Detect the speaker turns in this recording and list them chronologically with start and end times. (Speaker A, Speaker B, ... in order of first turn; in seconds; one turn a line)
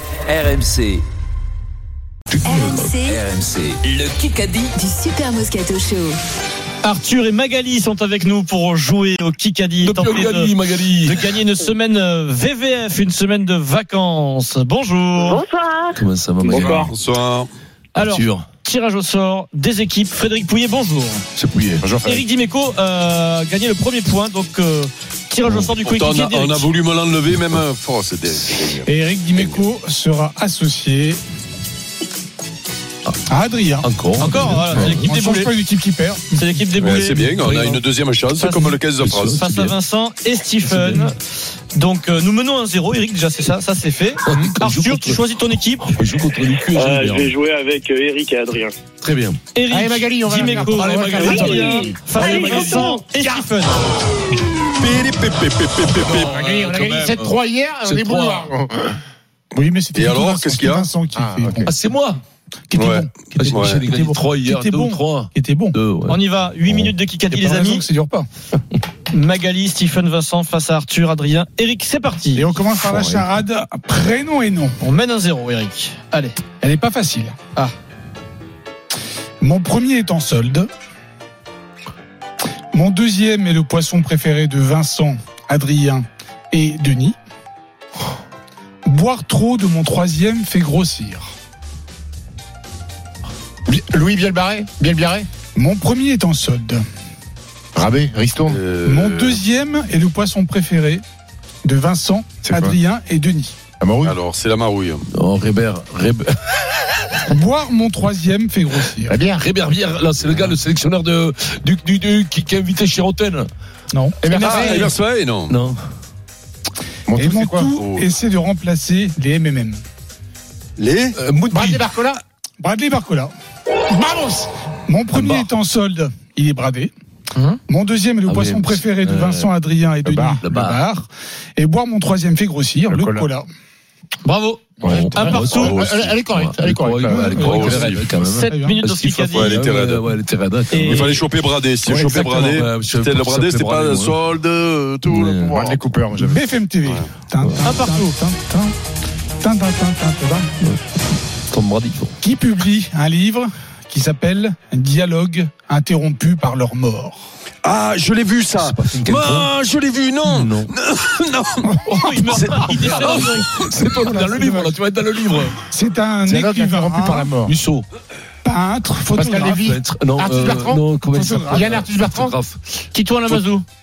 Speaker A: 0.3-1.1
Speaker B: 2.3-3.0
Speaker C: 2.4-3.2
Speaker A: 3.0-4.7
Speaker C: 4.7-6.2
Speaker D: 6.8-15.4
Speaker B: 9.8-11.3
Speaker E: 15.2-16.9
Speaker B: 15.9-16.9
Speaker F: 16.7-17.5
Speaker D: 17.9-21.2
Speaker B: 18.0-18.5
Speaker B: 21.4-21.8
Speaker G: 21.8-22.2
Speaker D: 22.0-26.7
Speaker F: 25.8-29.6
Speaker H: 28.8-31.2
Speaker H: 33.3-33.9
Speaker B: 33.8-35.1
Speaker D: 34.2-35.5
Speaker H: 34.9-36.4
Speaker D: 36.3-37.7
Speaker F: 36.8-39.4
Speaker B: 37.4-37.8
Speaker D: 38.4-38.8
Speaker B: 39.0-39.8
Speaker D: 39.4-41.2
Speaker B: 40.6-41.1
Speaker D: 41.7-46.0
Speaker B: 44.2-45.2
Speaker B: 45.9-47.3
Speaker E: 46.7-48.8
Speaker B: 49.0-49.4
Speaker D: 49.5-53.9
Speaker G: 49.7-51.4
Speaker B: 50.7-51.8
Speaker E: 51.2-53.0
Speaker F: 54.7-56.4
Speaker B: 55.9-58.5
Speaker G: 56.3-59.0
Speaker H: 59.5-61.7
Speaker F: 59.9-60.9
Speaker G: 61.1-61.7
Speaker B: 61.7-62.2
Speaker H: 62.7-65.8
Speaker F: 62.8-63.8
Speaker B: 63.4-66.9
Speaker D: 66.1-67.8
Speaker H: 67.3-68.3
Speaker D: 69.1-72.5
Speaker H: 72.3-74.8
Speaker B: 72.8-73.3
Speaker D: 74.8-76.4
Speaker H: 76.6-77.4
Speaker H: 79.4-80.7
Speaker H: 82.7-87.2
Speaker H: 88.9-91.3
Speaker G: 93.7-95.3
Speaker H: 95.5-96.8
Speaker G: 97.8-98.6
Speaker F: 98.5-99.4
Speaker H: 98.8-101.0
Speaker H: 101.6-103.6
Speaker G: 102.4-102.8
Speaker G: 103.8-104.2
Speaker F: 104.0-105.0
Speaker B: 105.1-106.5
Speaker H: 107.3-109.2
Speaker G: 109.1-109.4
Speaker B: 109.3-113.5
Speaker H: 113.9-114.2
Speaker G: 114.2-114.9
Speaker D: 114.3-114.9
Speaker F: 114.4-115.5
Speaker B: 115.5-115.8
Speaker G: 117.1-117.7
Speaker H: 117.2-119.8
Speaker F: 117.8-118.1
Speaker F: 120.8-121.2
Speaker B: 121.2-121.8
Speaker G: 121.5-122.2
Speaker H: 122.6-123.3
Speaker G: 123.9-124.5
Speaker H: 124.9-126.9
Speaker B: 125.1-125.5
Speaker D: 127.3-127.6
Speaker H: 127.7-133.5
Speaker B: 128.2-129.5
Speaker G: 130.1-130.4
Speaker B: 130.4-130.8
Speaker G: 132.9-133.3
Speaker D: 134.2-135.8
Speaker G: 134.8-137.8
Speaker B: 134.8-141.2
Speaker F: 135.3-135.9
Speaker H: 137.1-137.9
Speaker F: 137.4-138.1
Speaker D: 138.2-139.6
Speaker H: 138.5-138.8
Speaker F: 139.3-140.1
Speaker D: 140.7-141.1
Speaker F: 140.8-145.8
Speaker G: 141.9-142.2
Speaker B: 142.0-144.2
Speaker B: 145.1-145.6
Speaker G: 145.5-146.4
Speaker H: 146.2-148.7
Speaker D: 147.6-148.2
Speaker H: 149.4-150.5
Speaker B: 151.5-152.2
Speaker H: 152.2-157.2
Speaker F: 157.6-161.8
Speaker B: 158.6-159.5
Speaker B: 160.2-160.7
Speaker D: 161.8-163.5
Speaker F: 162.3-162.8
Speaker B: 162.9-165.6
Speaker H: 164.0-164.8
Speaker H: 165.7-167.3
Speaker G: 166.2-167.6
Speaker B: 167.4-167.9
Speaker H: 168.4-169.8
Speaker G: 169.2-170.8
Speaker B: 169.7-172.6
Speaker H: 171.1-171.7
Speaker G: 171.5-172.4
Speaker D: 172.9-173.6